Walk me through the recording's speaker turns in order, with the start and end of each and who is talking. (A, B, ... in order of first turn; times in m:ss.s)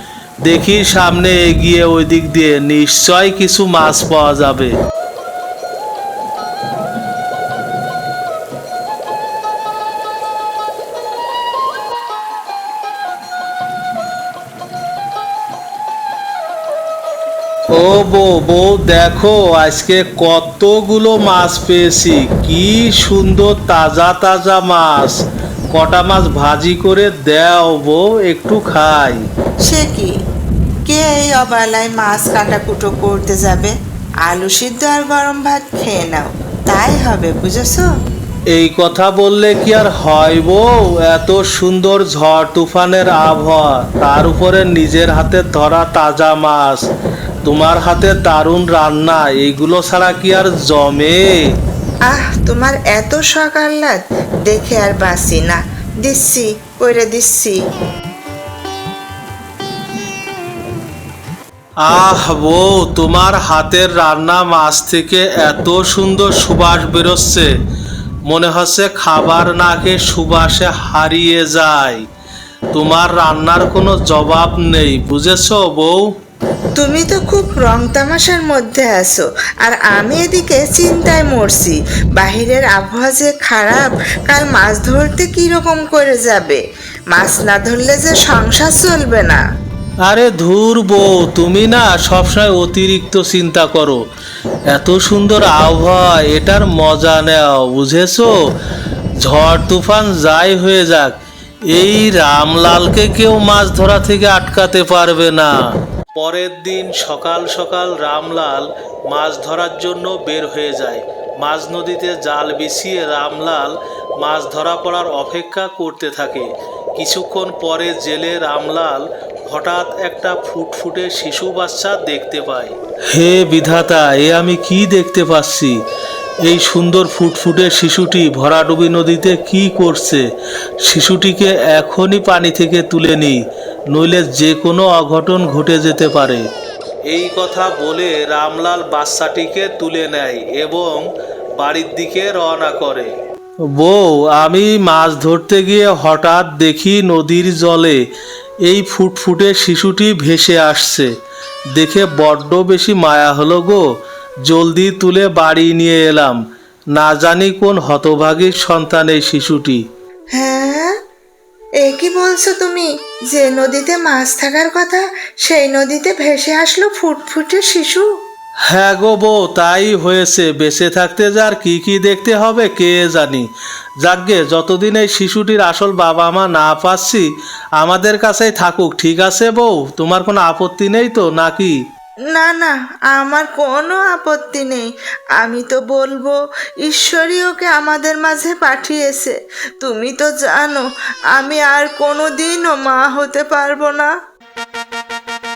0:00.5-0:04.7 A
0:17.7-0:25.2 A
0:25.7-0:29.2 A
0:29.7-0:30.1 B
0:30.9-0:37.8 B
0:38.5-0:46.8 A
0:47.4-0:51.3 A
0:52.1-0:57.6 B
1:01.8-1:07.5 A
1:08.3-1:12.0 A
1:12.7-1:16.0 A
1:16.8-1:26.6 B
1:27.1-1:29.4 B
1:30.1-1:34.0 A
1:34.7-1:38.3 A
1:39.2-1:41.1 A
1:41.7-1:45.5 A
1:46.2-2:05.7 A
2:06.5-2:10.2 A
2:10.9-2:13.4 A
2:13.9-2:16.4 A
2:17.1-2:21.0 A
2:21.6-2:23.1 A
2:23.7-2:28.0 A
2:28.6-2:31.1 A
2:31.7-2:33.8 A
2:34.5-2:36.4 A
2:36.9-2:39.8 A
2:40.4-2:40.9 B
2:41.8-2:48.1 B
2:48.7-2:53.5 A
2:54.0-2:57.2 A
2:57.8-3:01.7 A
3:02.3-3:14.1 B